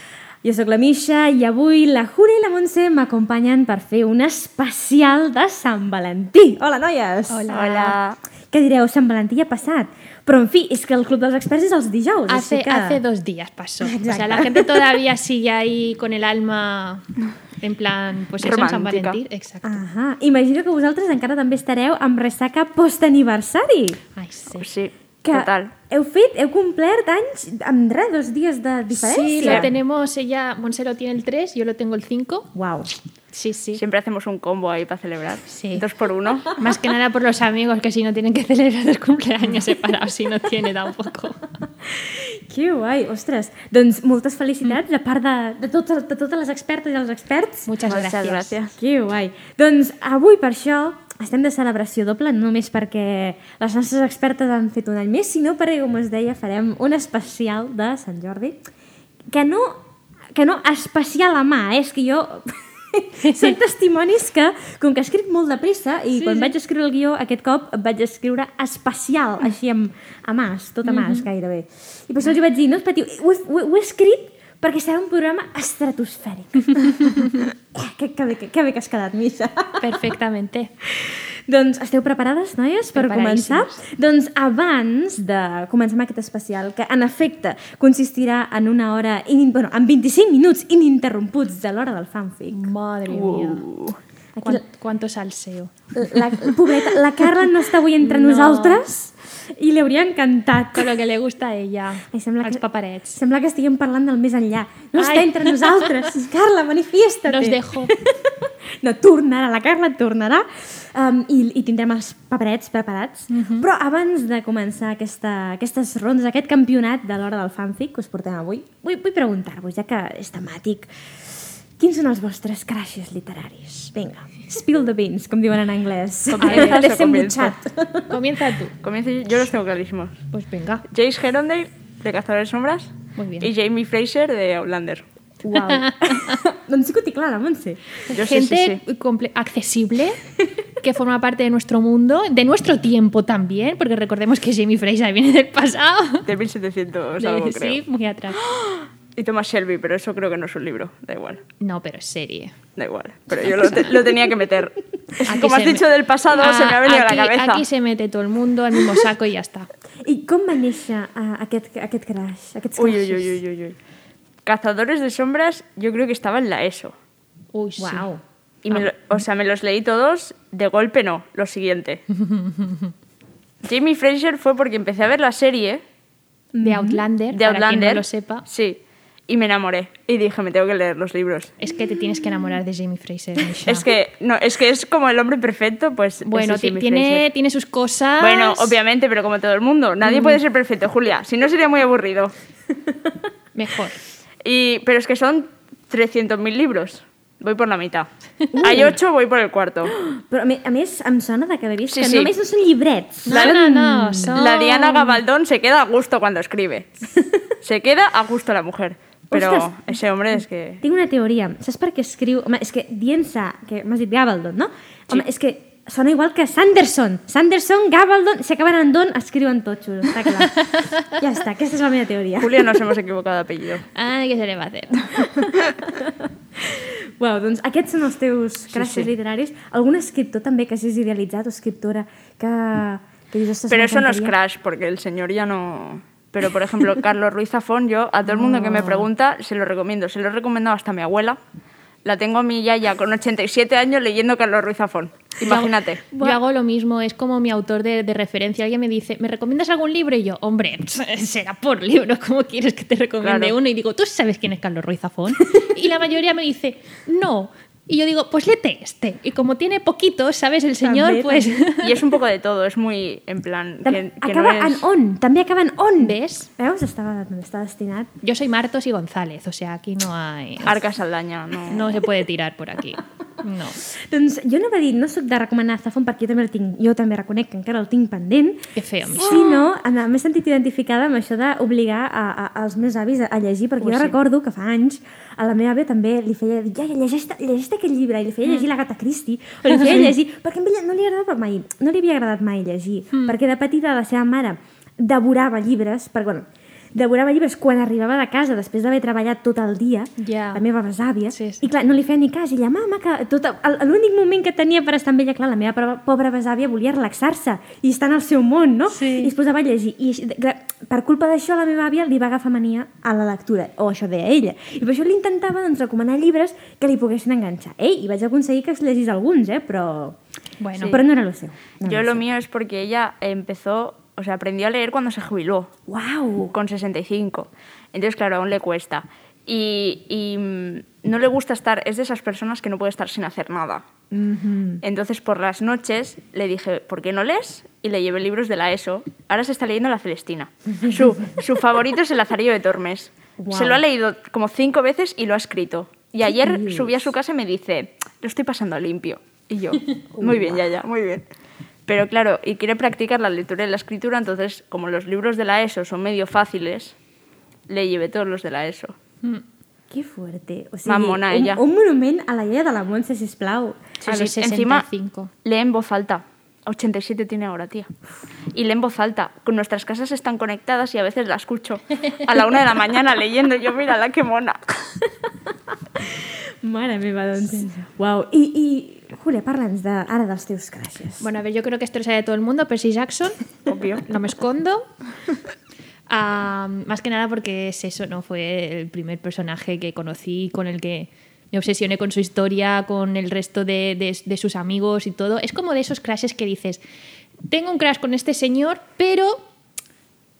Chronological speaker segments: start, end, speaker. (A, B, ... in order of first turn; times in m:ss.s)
0:00.4-0:07.5 A
0:07.3-0:08.0 B
0:07.5-0:08.2 C
0:08.5-0:13.0 A
0:12.3-0:17.0 B
0:13.8-0:15.0 A
0:17.6-0:19.8 B
0:18.4-0:19.2 C
0:19.6-0:24.0 A
0:24.2-0:24.7 B
0:24.6-0:25.7 C
0:25.2-0:29.7 A
0:28.9-0:32.5 B
0:29.4-0:29.7 C
0:32.5-0:32.9 A
0:33.3-0:33.8 B
0:33.8-0:36.6 C
0:35.5-0:35.8 B
0:36.4-0:41.4 B
0:41.8-0:47.7 A
0:47.7-0:48.6 B
0:47.8-0:48.7 C
0:48.8-0:58.6 A
0:59.3-0:59.8 A
1:00.3-1:20.0 A
1:03.2-1:03.6 B
1:06.1-1:06.5 B
1:10.8-1:11.2 B
1:19.8-1:20.7 B
1:20.8-1:32.7 A
1:22.9-1:23.8 B
1:32.5-1:33.6 B
1:33.1-1:34.0 C
1:34.4-1:34.6 A
1:34.4-1:35.7 B
1:35.9-1:40.9 A
1:38.0-1:38.8 B
1:40.7-1:43.2 B
1:42.1-1:42.6 A
1:43.1-2:08.3 A
1:45.0-1:46.1 B
1:47.3-1:47.9 B
1:53.3-1:53.7 B
2:06.3-2:07.6 C
2:06.4-2:06.8 B
2:08.1-2:08.7 B
2:08.8-2:10.2 C
2:10.3-2:10.8 B
2:10.9-2:15.0 C
2:13.2-2:13.5 B
2:15.5-2:17.8 A
2:15.5-2:16.4 B
2:18.1-2:18.8 C
2:18.1-2:20.2 B
2:20.8-2:26.3 B
2:26.2-2:27.8 C
2:27.2-2:28.4 B
2:29.2-2:31.4 C
2:31.6-2:32.5 B
2:32.8-2:37.6 C
2:33.4-2:33.9 B
2:35.2-2:39.7 B
2:40.0-2:43.4 A
2:42.8-2:43.8 C
2:44.4-2:46.9 C
2:47.5-2:48.1 B
2:47.8-2:48.2 A
2:48.6-2:52.0 C
2:52.1-2:52.9 B
2:53.6-2:55.8 C
2:56.5-2:57.0 A
2:56.6-2:58.4 B
2:57.3-3:01.5 C
3:01.6-3:03.9 B
3:03.6-3:07.3 C
3:06.2-3:08.8 B
3:08.2-3:12.3 C
3:10.1-3:10.4 B
3:13.5-3:14.0 B
3:14.4-3:18.1 C
3:18.5-3:19.0 A
3:18.6-3:19.9 C
3:19.9-3:24.4 A
3:21.9-3:22.3 C
3:23.2-3:25.2 B
3:23.3-3:23.6 C
3:24.3-3:26.9 C
3:27.6-3:30.8 C
3:29.3-3:30.0 A
3:30.8-3:42.8 A
3:42.4-3:43.8 C
3:43.9-3:45.2 B
3:45.2-3:54.3 A
3:48.7-3:49.1 C
3:53.7-4:01.4 C
3:58.3-3:59.1 A
4:02.0-4:06.2 C
4:05.4-4:22.0 B
4:13.2-4:13.6 C
4:20.8-4:21.6 A
4:21.8-4:24.8 C
4:23.8-4:28.1 A
4:26.0-4:26.5 B
4:28.2-4:30.8 B
4:30.6-4:32.0 C
4:31.7-4:33.8 B
4:33.9-5:20.2 A
4:38.7-4:39.5 B
4:43.8-4:44.2 B
4:49.7-4:50.1 B
5:00.2-5:00.6 B
5:01.3-5:01.7 B
5:08.9-5:09.3 B
5:20.6-5:21.0 B
5:20.8-5:22.2 A
5:21.8-5:25.7 C
5:25.9-5:26.5 A
5:26.5-5:33.8 C
5:34.1-5:34.8 A
5:34.8-5:51.2 C
5:40.8-5:41.2 A
5:43.4-5:43.8 A
5:46.2-5:47.1 A
5:50.2-5:50.6 A
5:51.9-5:56.9 C
5:57.7-5:59.0 C
5:59.9-6:03.9 A
6:00.8-6:01.6 C
6:04.0-6:05.3 B
6:04.1-6:04.8 C
6:05.4-6:07.9 C
6:08.5-6:15.0 C
6:16.0-6:21.2 A
6:21.2-6:23.4 B
6:23.7-6:24.0 C
6:24.0-6:24.9 B
6:26.1-6:36.8 B
6:37.5-6:39.4 B